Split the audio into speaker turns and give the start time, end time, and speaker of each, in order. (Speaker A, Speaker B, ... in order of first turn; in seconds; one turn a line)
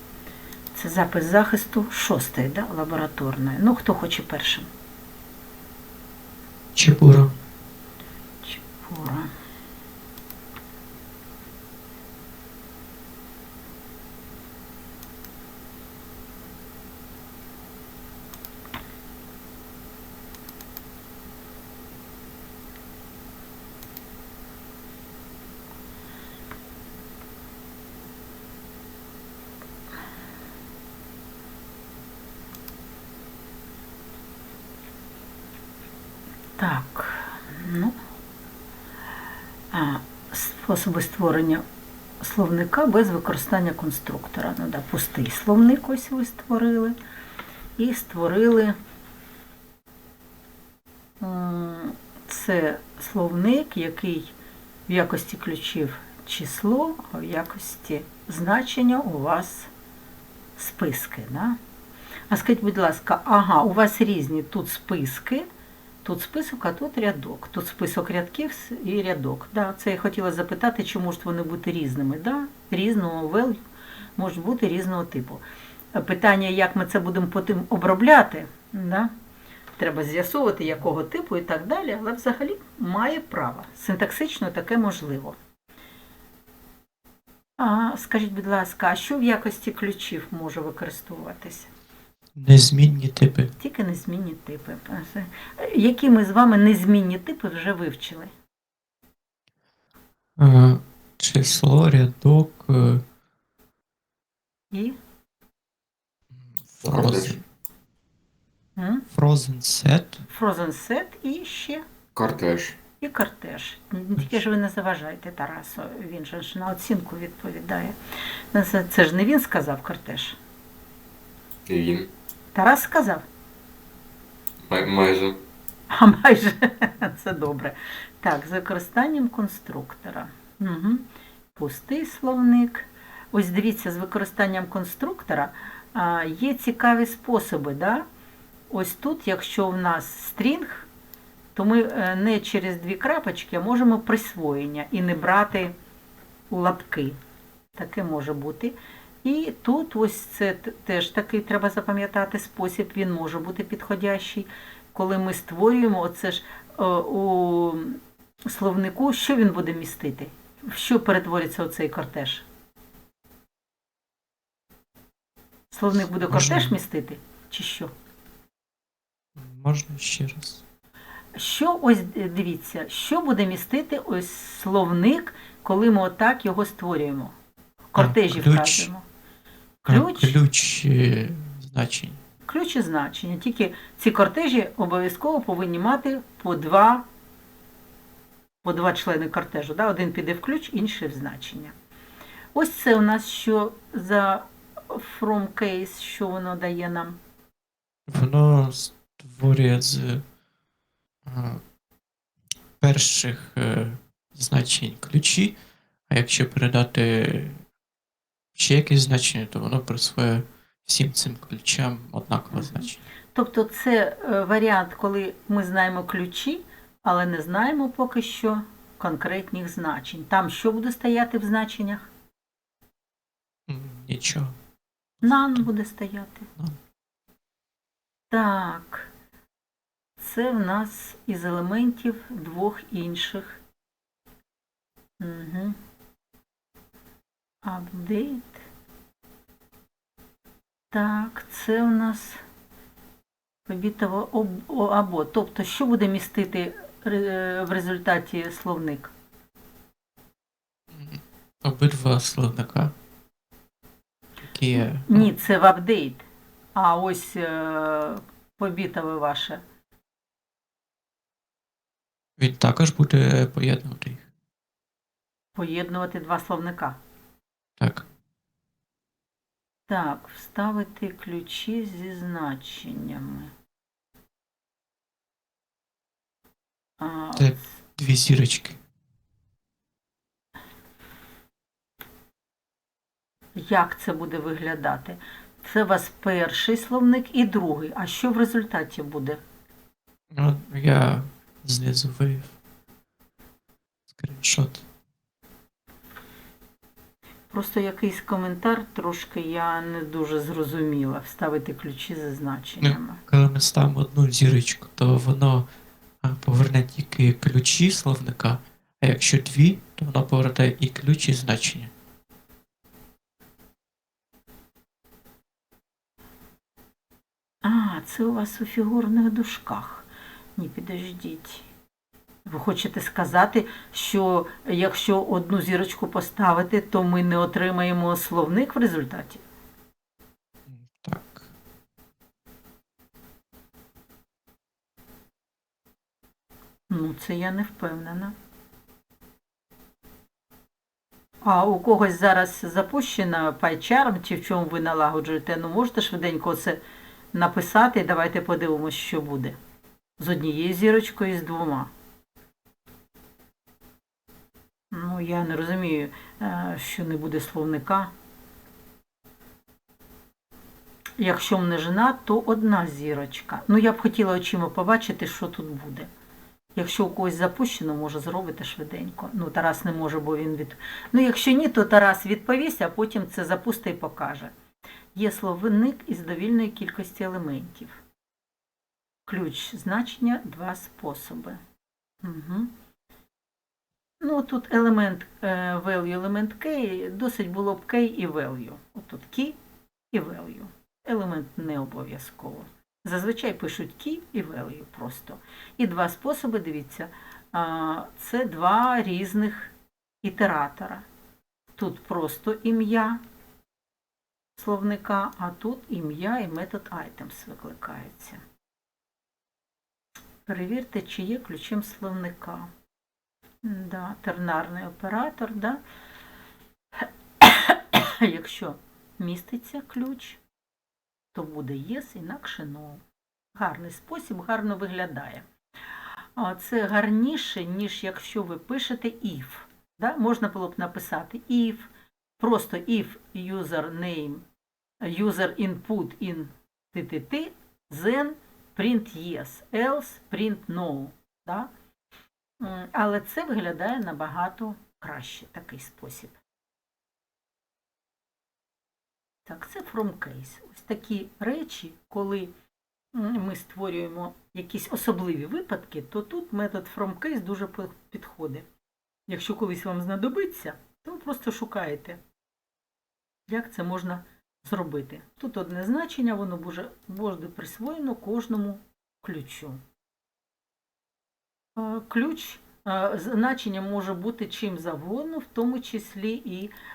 Speaker A: 0.8-4.7
Speaker B: 6.8-7.3
Speaker A: 8.4-9.3
Speaker A: 36.6-38.0
Speaker A: 39.7-41.6
Speaker A: 42.2-47.0
Speaker A: 47.8-48.8
Speaker A: 51.2-54.3
Speaker A: 54.9-59.7
Speaker A: 60.6-61.6
Speaker A: 62.3-65.5
Speaker A: 66.0-73.6
Speaker A: 74.2-79.1
Speaker A: 79.8-85.4
Speaker A: 87.6-91.7
Speaker B: 92.4-93.5
Speaker A: 93.6-98.3
Speaker B: 100.4-103.0
Speaker A: 104.7-105.0
Speaker B: 106.3-107.4
Speaker C: 106.8-107.4
Speaker A: 108.8-109.1
Speaker B: 109.1-110.3
Speaker A: 110.3-111.8
Speaker C: 112.2-112.8
Speaker A: 113.0-118.0
Speaker A: 118.5-120.4
Speaker C: 121.7-122.1
Speaker A: 122.5-123.2
Speaker C: 124.7-125.4
Speaker A: 125.9-138.1
Speaker A: 138.7-140.9
Speaker A: 141.6-145.7
Speaker A: 146.5-147.2
Speaker A: 147.8-162.5
Speaker A: 165.7-167.9
Speaker B: 166.2-166.8
Speaker B: 169.4-170.6
Speaker A: 171.3-177.3
Speaker A: 177.9-179.0
Speaker B: 177.9-178.9
Speaker A: 179.8-180.4
Speaker B: 179.9-182.2
Speaker A: 182.4-187.0
Speaker A: 188.6-191.7
Speaker A: 192.5-197.2
Speaker B: 198.1-200.2
Speaker B: 201.3-201.6
Speaker B: 202.8-205.6
Speaker B: 206.1-207.6
Speaker B: 208.6-213.0
Speaker A: 212.5-222.1
Speaker B: 223.7-224.6
Speaker B: 225.2-225.7
Speaker A: 225.2-226.5
Speaker A: 228.3-229.1
Speaker A: 230.2-233.6
Speaker A: 235.2-235.8
Speaker A: 237.6-238.7
Speaker A: 240.9-242.4
Speaker A: 243.7-249.1
Speaker B: 250.9-252.9
Speaker B: 254.4-255.3
Speaker A: 254.8-259.6
Speaker B: 262.4-264.3
Speaker A: 265.6-267.0
Speaker B: 267.8-268.1
Speaker A: 269.9-273.5
Speaker A: 277.0-277.6
Speaker B: 277.4-278.8
Speaker A: 283.6-289.4
Speaker B: 290.3-292.6
Speaker B: 294.1-294.9
Speaker A: 297.5-303.2
Speaker B: 302.8-305.7
Speaker B: 306.2-311.9
Speaker A: 317.6-321.7
Speaker A: 322.5-329.4
Speaker B: 330.7-331.5
Speaker A: 336.9-338.3
Speaker A: 341.4-346.8
Speaker A: 347.3-349.6
Speaker A: 350.2-351.9
Speaker A: 354.9-358.1
Speaker A: 361.2-366.1
Speaker A: 366.8-374.5
Speaker A: 375.1-378.0
Speaker A: 379.3-381.6
Speaker A: 382.2-382.7
Speaker A: 384.2-389.6
Speaker A: 390.1-401.1
Speaker A: 401.8-403.2
Speaker A: 404.6-408.4
Speaker A: 410.5-412.7
Speaker A: 413.6-415.8
Speaker A: 417.4-420.4
Speaker A: 421.3-423.0
Speaker A: 423.5-425.5
Speaker A: 426.4-434.4
Speaker A: 435.0-441.7
Speaker A: 442.6-446.4
Speaker A: 449.4-452.5
Speaker A: 453.1-458.7
Speaker A: 459.3-462.2
Speaker A: 463.5-469.8
Speaker A: 471.8-476.7